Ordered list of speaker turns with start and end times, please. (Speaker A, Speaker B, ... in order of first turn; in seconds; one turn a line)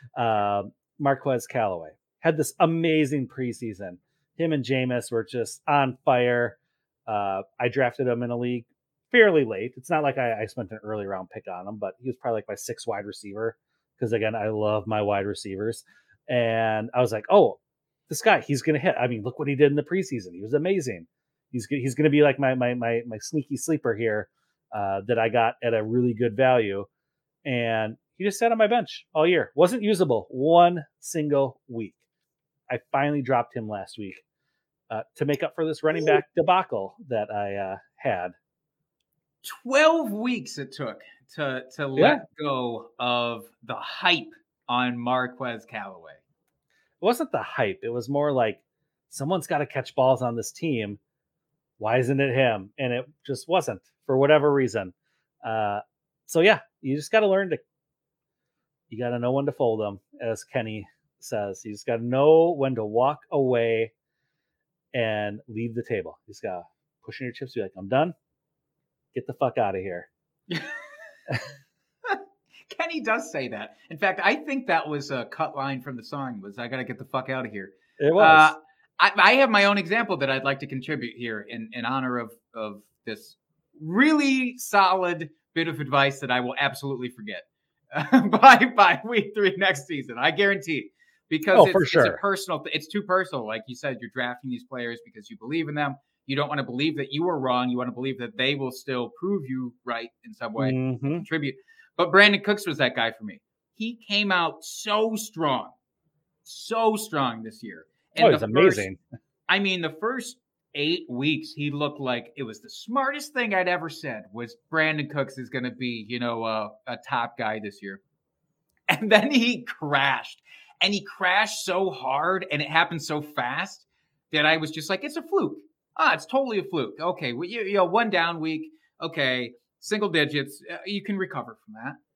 Speaker A: 0.2-26.9
Speaker A: 27.4-32.0
Speaker A: 32.7-34.2
Speaker A: 34.9-38.4
Speaker B: 39.4-46.2
Speaker A: 42.0-42.2
Speaker A: 47.0-51.0
Speaker A: 51.8-57.6
Speaker A: 58.9-63.9
Speaker A: 64.9-68.2
Speaker A: 69.1-70.1
Speaker B: 70.5-70.8
Speaker B: 72.7-105.7
Speaker A: 78.0-78.5
Speaker A: 91.5-92.2
Speaker A: 100.6-101.3
Speaker B: 106.5-108.9
Speaker A: 108.2-109.0
Speaker B: 109.5-118.0
Speaker B: 118.9-132.0